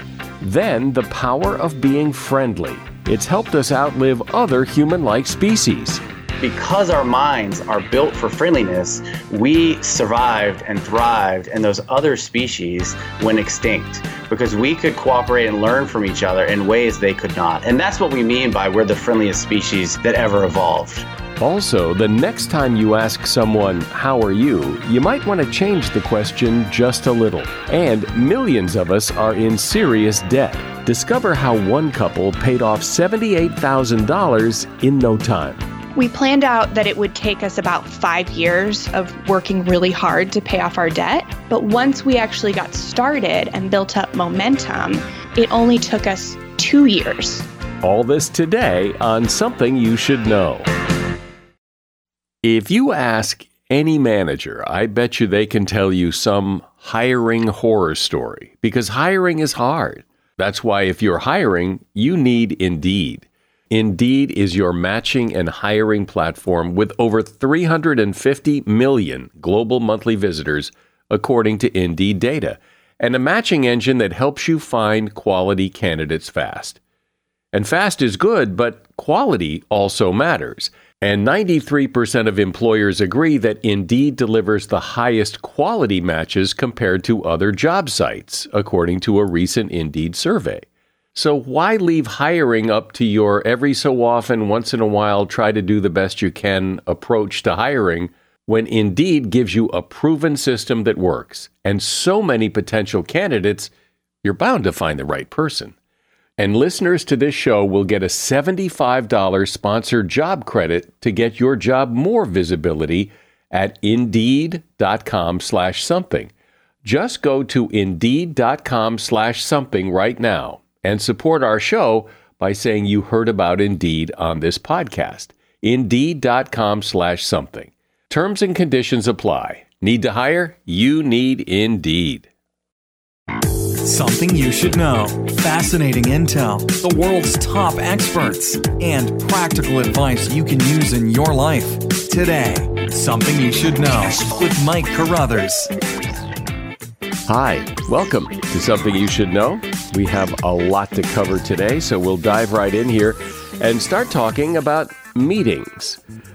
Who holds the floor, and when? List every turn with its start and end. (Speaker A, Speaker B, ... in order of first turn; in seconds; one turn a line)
Speaker A: 0.4-6.0
Speaker B: 6.4-21.1
Speaker A: 21.4-35.6
Speaker C: 36.0-47.4
Speaker A: 47.8-50.7
Speaker A: 52.4-76.8
Speaker A: 77.5-103.7
Speaker A: 104.2-105.7
Speaker A: 106.4-116.3
Speaker A: 116.8-132.3
Speaker D: 133.8-145.7
Speaker A: 147.3-156.0